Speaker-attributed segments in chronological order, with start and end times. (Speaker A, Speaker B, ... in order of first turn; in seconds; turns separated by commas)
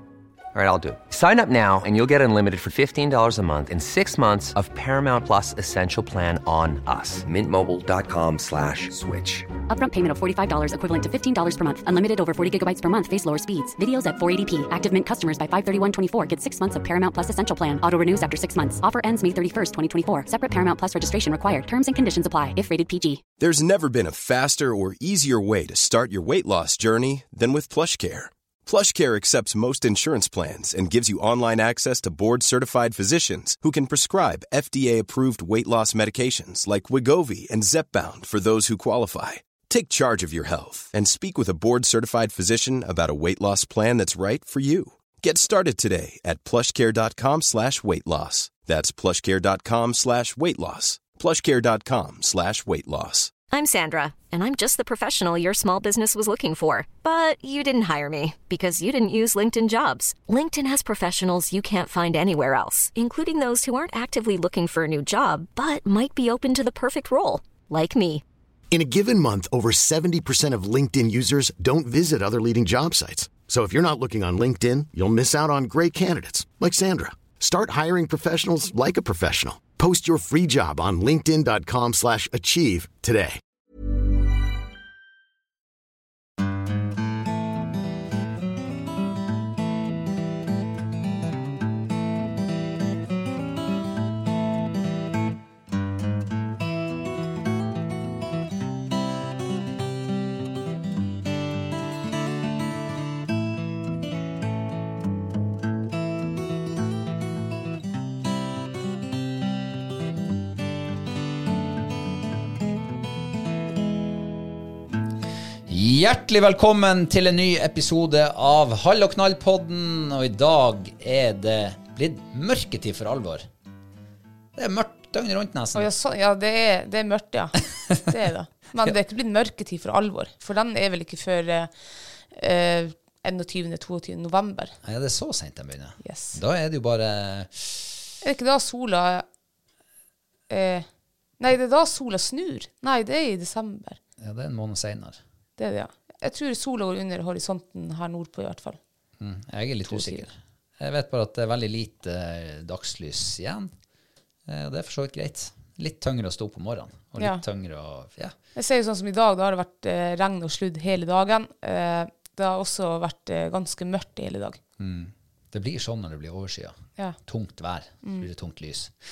Speaker A: 0.5-9.5, Speaker B: 9.7-23.2, Speaker C: 23.4-53.3, Speaker D: 53.5-68.2, Speaker E: 68.7-83.4, Speaker F: 115.7-123.5, Speaker F: 124.5-125.9, Speaker G: 125.7-131.7, Speaker G: 132.3-134.8, Speaker F: 134.8-138.0, Speaker G: 136.0-136.4, Speaker G: 138.2-139.2, Speaker G: 140.5-140.8, Speaker G: 141.4-144.0, Speaker F: 144.2-145.2, Speaker G: 145.6-148.8, Speaker F: 149.2-153.7, Speaker G: 149.9-150.2, Speaker F: 154.5-158.3, Speaker G: 157.2-157.4, Speaker G: 158.6-164.6, Speaker F: 164.8-168.9